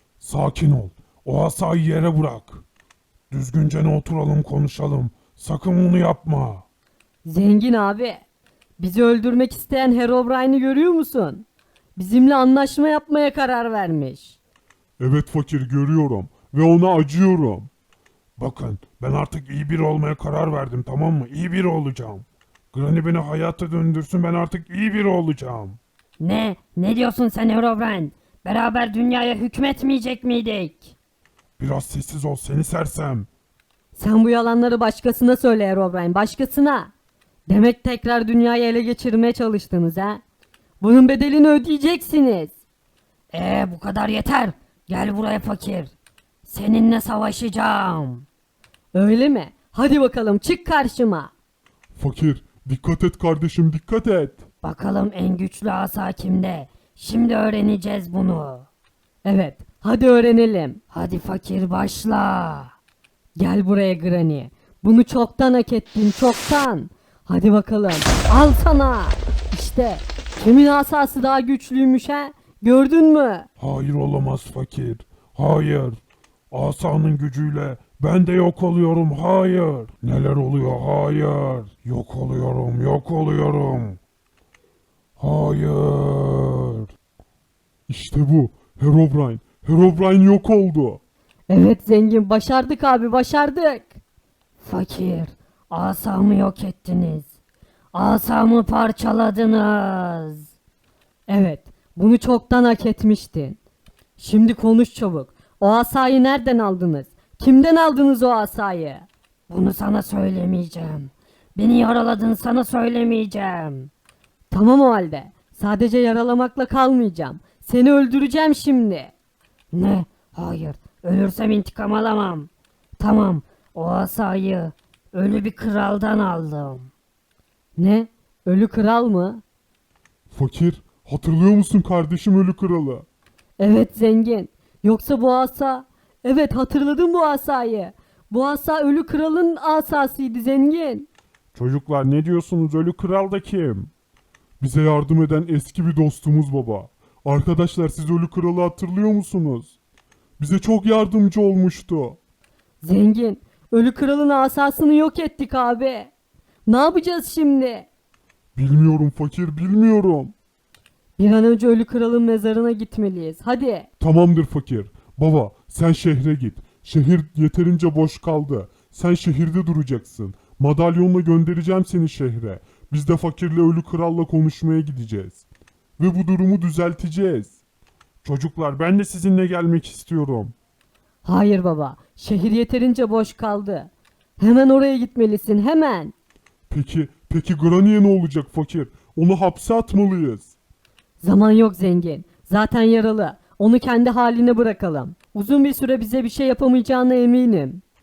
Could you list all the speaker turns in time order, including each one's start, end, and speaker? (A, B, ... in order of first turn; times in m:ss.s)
0:00.2-0:02.6 A
0:03.3-0:06.6 A
0:07.2-0:08.2 B
0:08.8-0:11.4 B
0:12.0-0:14.4 B
0:15.0-0:17.7 A
0:18.4-0:25.8 A
0:26.2-0:31.0 C
0:31.6-0:33.3 A
0:34.0-0:36.9 B
0:37.5-0:40.2 B
0:40.8-0:42.5 B
0:43.3-0:45.9 C
0:46.4-0:48.2 C
0:48.9-0:51.3 B
0:51.9-0:54.4 A
0:54.6-0:58.7 C
0:59.2-1:00.8 B
1:00.9-1:02.7 C
1:03.4-1:13.5 B
1:13.6-1:24.0 A
1:25.2-1:26.9 A
1:27.9-1:31.0 A
1:31.5-1:34.0 B
1:34.6-1:37.3 C
1:37.9-1:40.5 C
1:41.3-1:43.6 B
1:44.2-1:49.1 B
1:49.5-1:53.9 C
1:54.5-1:59.1 B
1:59.7-2:06.9 C
2:07.8-2:09.4 B
2:10.3-2:13.0 A
2:13.6-2:21.1 B
2:21.5-2:23.9 A
2:24.6-2:29.8 A
2:30.4-2:32.2 A
2:32.8-2:36.1 B
2:36.7-2:37.9 B
2:38.6-2:40.3 A
2:41.2-2:43.9 B
2:44.0-2:55.4 A
2:56.0-2:57.6 A
2:58.2-3:00.5 A
3:01.2-3:06.1 B
3:06.7-3:10.5 A
3:11.2-3:17.8 B